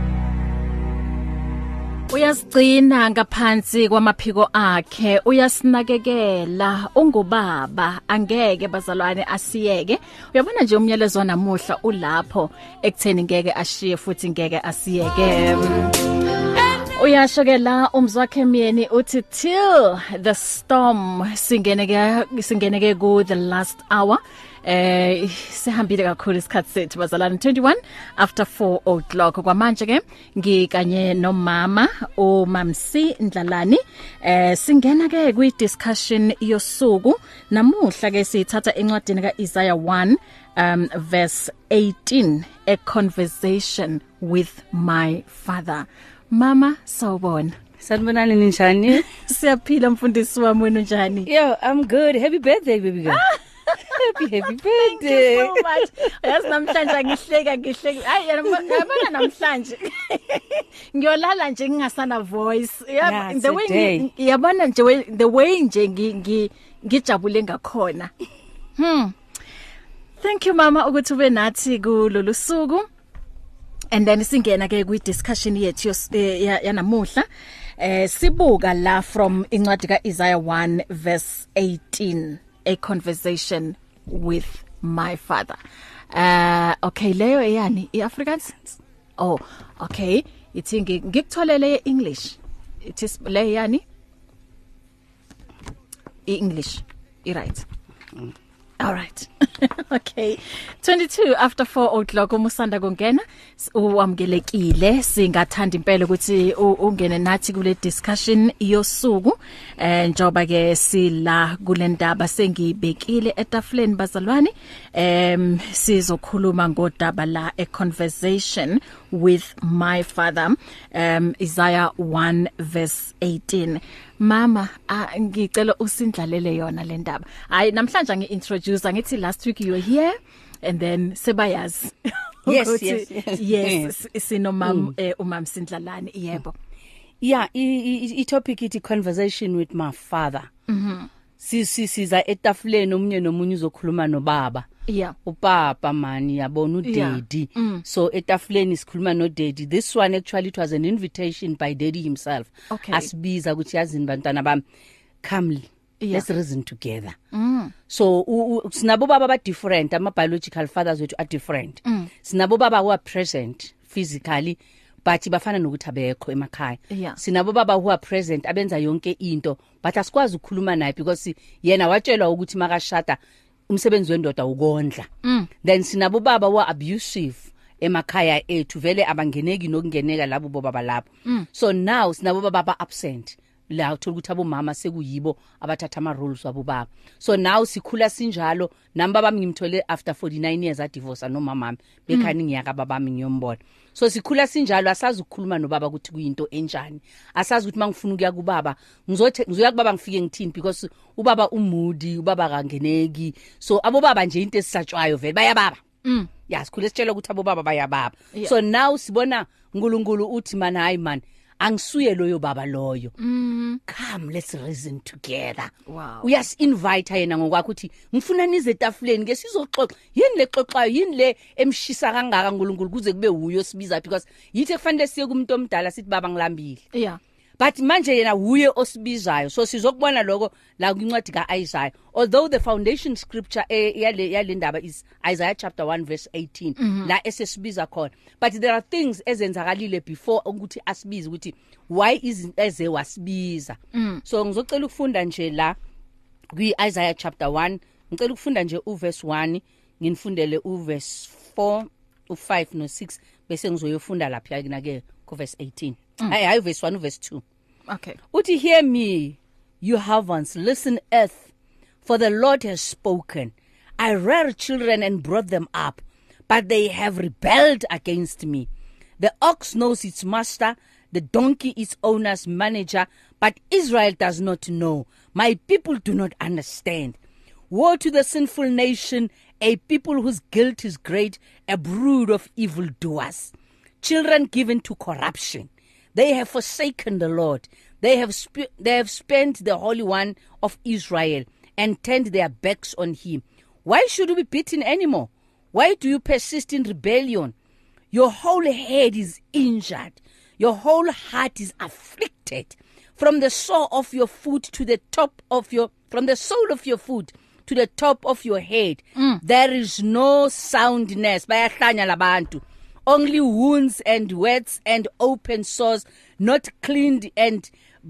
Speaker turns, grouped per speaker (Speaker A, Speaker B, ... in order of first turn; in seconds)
Speaker A: 2.1-16.1, 16.8-47.5, 49.0-51.3, 53.1-54.0, 54.7-68.1, 68.8-69.1, 70.2-72.9, 73.9-77.3, 77.8-85.6, 86.1-88.6, 89.2-93.8, 96.3-97.7, 98.8-136.5, 140.7-141.1, 144.9-145.2, 146.8-147.8, 152.7-153.1, 156.0-156.2, 157.3-157.7, 161.8-162.1, 166.9-167.2, 175.2-175.5, 206.1-206.3, 213.2-213.8, 215.9-216.3, 226.9-227.2, 236.8-237.1, 243.9-244.2, 257.9-258.2
Speaker B: 47.8-49.1, 51.3-53.3, 53.9-55.8, 63.0-64.1, 132.5-133.9, 134.6-134.9, 137.2-140.5, 141.4-144.7, 145.2-154.6, 155.2-157.2, 157.9-173.2, 173.7-175.1, 175.6-205.8, 206.5-213.1, 213.9-215.7, 216.2-226.8, 227.6-245.8, 246.5-257.4, 258.3-261.5, 262.0-268.7, 269.2-277.2, 277.7-297.5, 298.1-317.7